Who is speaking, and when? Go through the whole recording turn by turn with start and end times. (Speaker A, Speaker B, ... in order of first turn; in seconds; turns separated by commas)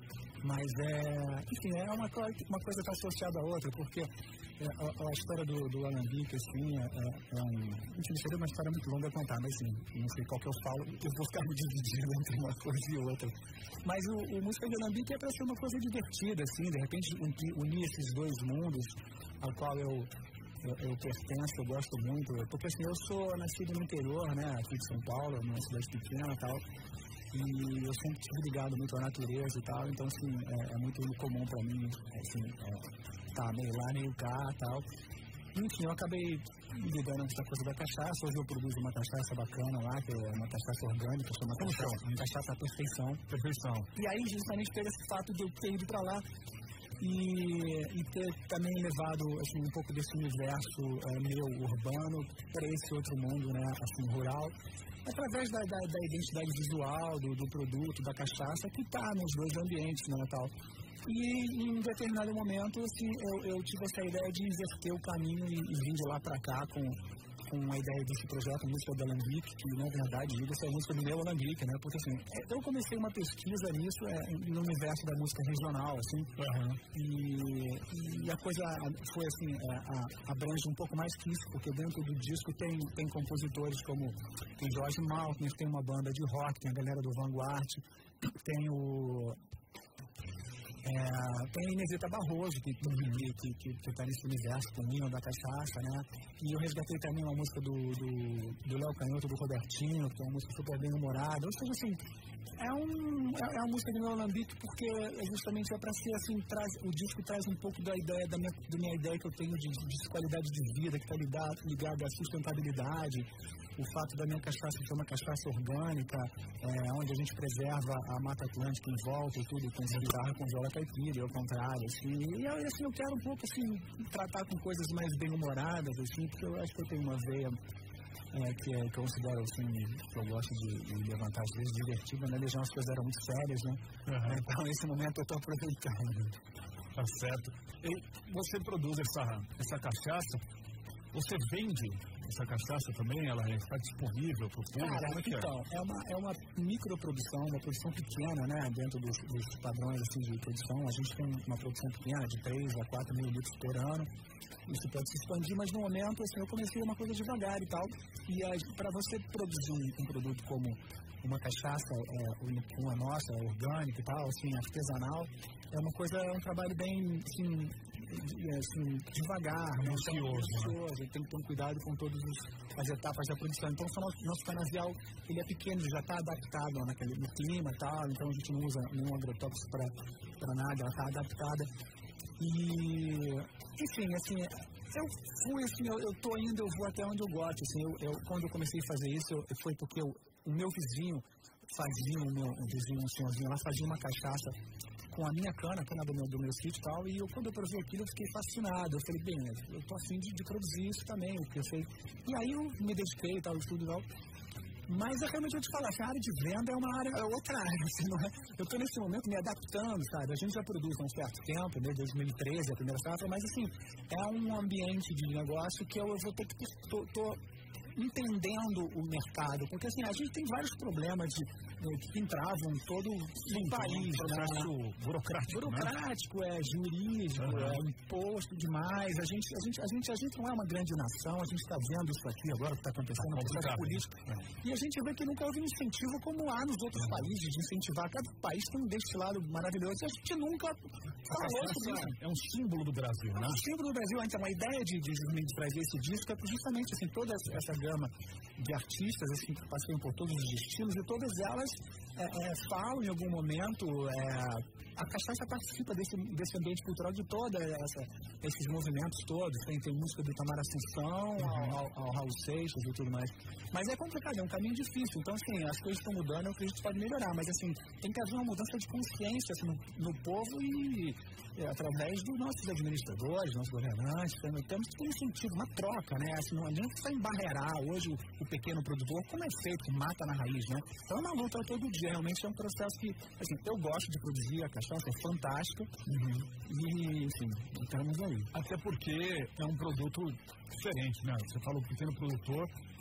Speaker A: 0.4-26.6, Speaker A: 27.3-34.9, Speaker A: 35.5-43.2, Speaker B: 41.6-42.0, Speaker B: 43.3-43.9, Speaker A: 43.9-46.2, Speaker A: 47.0-76.3, Speaker B: 76.4-76.8, Speaker A: 76.9-89.4, Speaker A: 90.8-102.0, Speaker B: 92.8-93.2, Speaker A: 102.6-127.6, Speaker A: 128.3-136.4, Speaker B: 134.1-134.4, Speaker B: 136.9-140.4, Speaker B: 141.1-145.5, Speaker A: 144.8-154.1, Speaker A: 154.7-181.7, Speaker B: 169.8-170.8, Speaker A: 182.4-194.6, Speaker A: 195.1-204.1, Speaker A: 204.9-217.4, Speaker A: 217.9-224.7, Speaker B: 223.5-225.9, Speaker A: 225.5-242.2, Speaker B: 227.4-227.8, Speaker B: 233.2-234.5, Speaker B: 241.3-243.6, Speaker A: 243.3-288.5, Speaker B: 261.4-261.8, Speaker B: 286.1-286.5, Speaker B: 288.5-292.7